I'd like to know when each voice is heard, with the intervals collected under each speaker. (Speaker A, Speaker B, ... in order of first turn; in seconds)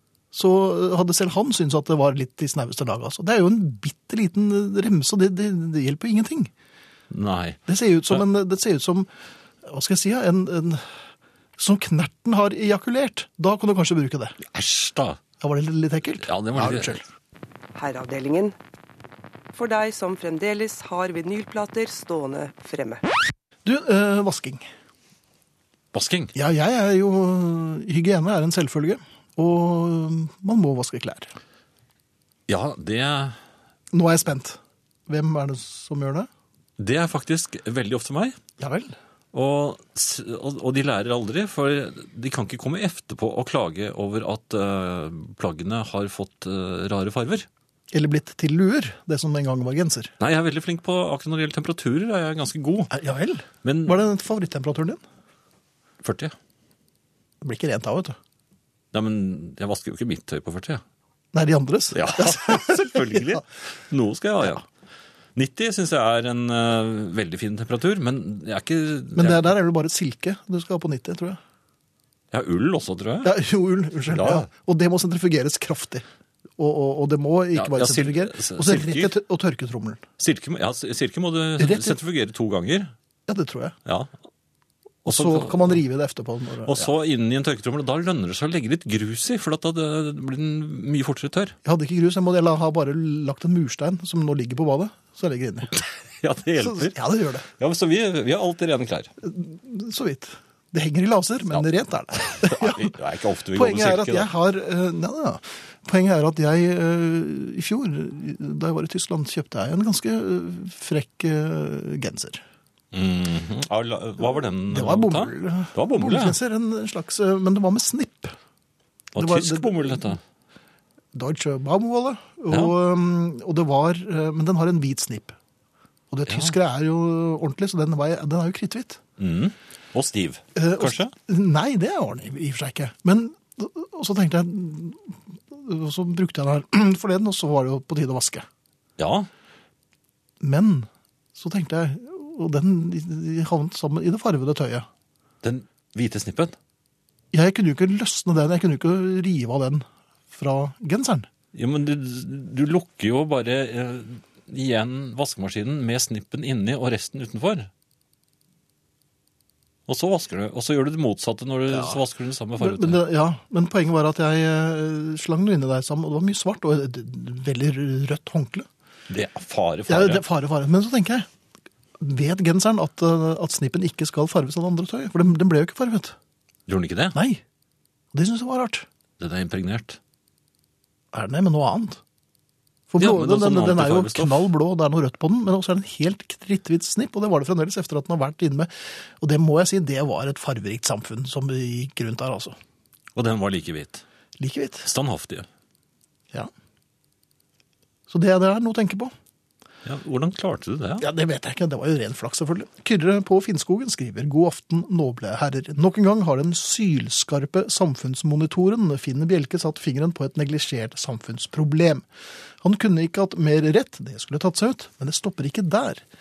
Speaker A: 0.3-6.5, 7.7-9.1, 9.6-10.8, 11.6-14.4, 15.4-17.0, 23.6-24.7, 26.3-31.3, 33.9-36.3, 38.6-38.9, 47.9-50.1, 52.9-55.0, 57.4-58.1, 61.3-63.4, 69.2-71.4, 73.2-76.0, 76.6-80.0, 81.6-82.0, 83.3-83.8, 85.0-86.9, 91.6-95.8, 96.6-97.5, 99.2-102.9, 103.5-112.4, 114.7-118.3, 119.1-120.2, 121.1-125.3, 126.1-129.0, 130.5-138.4, 140.4-144.9, 147.3-151.3, 161.7-162.0, 162.6-168.7, 169.9-171.2, 172.0-176.1, 177.1-177.4, 178.1-178.8, 181.1-182.0, 182.9-192.6, 194.4-194.9, 198.1-199.1, 201.0-212.0, 212.6-216.0
Speaker B: 7.1-8.2, 14.4-15.2, 16.2-17.0, 25.9-26.3, 32.5-33.4, 36.8-38.4, 39.3-47.5, 50.2-52.9, 53.6-54.0, 56.0-56.3, 58.9-60.8, 61.9-64.6, 65.3-69.4, 72.3-73.3, 74.1-74.5, 77.5-79.1, 80.2-82.9, 83.8-84.1, 85.0-85.8, 86.6-91.5, 96.2-97.0, 97.6-99.1, 102.2-104.3, 112.9-116.3, 119.1-120.2, 126.3-126.5, 129.2-131.1, 139.0-139.3, 145.4-146.6, 151.5-157.7, 159.9-163.0, 169.1-170.2, 176.7-177.2, 179.2-180.0, 183.0-184.4, 193.1-194.0, 194.8-195.5, 199.8-201.0
Speaker C: 17.7-18.5, 19.5-23.0